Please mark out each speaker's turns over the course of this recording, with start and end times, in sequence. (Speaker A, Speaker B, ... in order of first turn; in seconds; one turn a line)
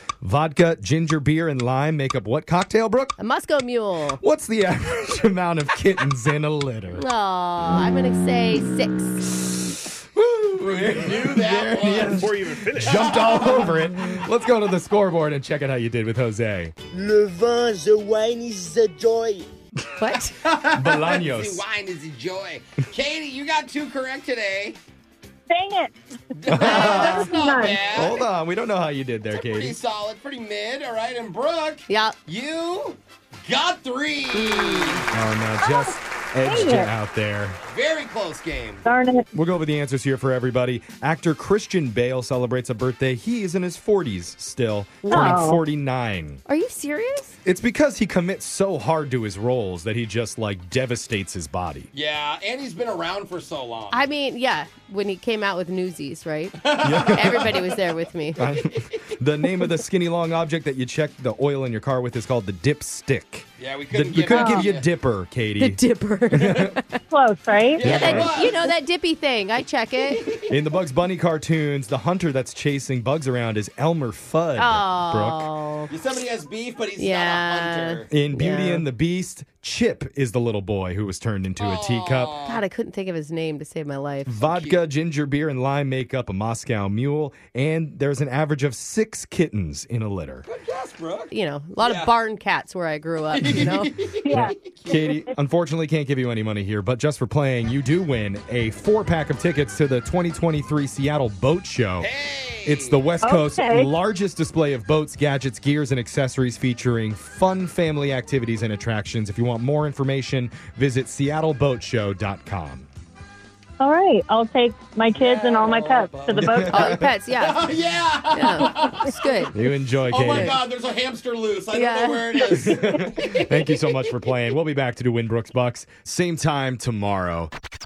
Speaker A: 0.2-3.2
Speaker B: 3.2-4.2
Speaker A: 4.2-7.1
Speaker B: 7.0-9.3
Speaker A: 10.2-16.7
Speaker C: 10.6-13.4
Speaker D: 17.0-19.4
Speaker B: 20.0-20.4
Speaker C: 20.4-24.8
Speaker A: 20.6-21.6
Speaker E: 25.5-25.9
Speaker C: 26.4-28.2
Speaker A: 26.5-27.3
Speaker E: 26.6-27.8
Speaker A: 27.9-29.8
Speaker C: 29.3-35.2
Speaker B: 31.9-32.2
Speaker B: 34.4-35.0
Speaker A: 35.1-37.6
Speaker E: 35.6-36.9
Speaker C: 37.7-38.8
Speaker E: 38.9-39.3
Speaker A: 39.3-46.4
Speaker E: 45.0-45.6
Speaker B: 45.1-45.4
Speaker B: 46.5-47.4
Speaker A: 47.5-51.9
Speaker C: 51.9-54.0
Speaker B: 53.9-58.4
Speaker C: 56.6-57.6
Speaker A: 56.8-57.6
Speaker A: 58.4-66.7
Speaker C: 63.6-64.9
Speaker E: 64.3-64.7
Speaker B: 65.6-67.0
Speaker E: 67.1-67.9
Speaker C: 67.8-68.7
Speaker A: 67.8-68.5
Speaker B: 67.9-70.2
Speaker A: 70.5-75.5
Speaker B: 74.6-75.9
Speaker C: 75.9-78.1
Speaker B: 77.0-78.8
Speaker A: 78.1-82.3
Speaker C: 81.6-82.6
Speaker B: 82.5-84.3
Speaker A: 84.3-90.5
Speaker C: 84.4-84.8
Speaker C: 90.5-92.1
Speaker B: 91.3-93.9
Speaker C: 93.3-95.0
Speaker E: 94.2-95.3
Speaker A: 94.9-102.1
Speaker C: 102.0-103.0
Speaker A: 102.6-112.9
Speaker E: 103.2-103.9
Speaker E: 113.8-116.9
Speaker C: 115.2-116.6
Speaker A: 116.3-117.1
Speaker B: 116.7-117.7
Speaker C: 117.4-119.1
Speaker B: 118.3-119.5
Speaker A: 119.5-120.6
Speaker C: 120.1-123.4
Speaker B: 121.7-122.5
Speaker A: 122.5-127.5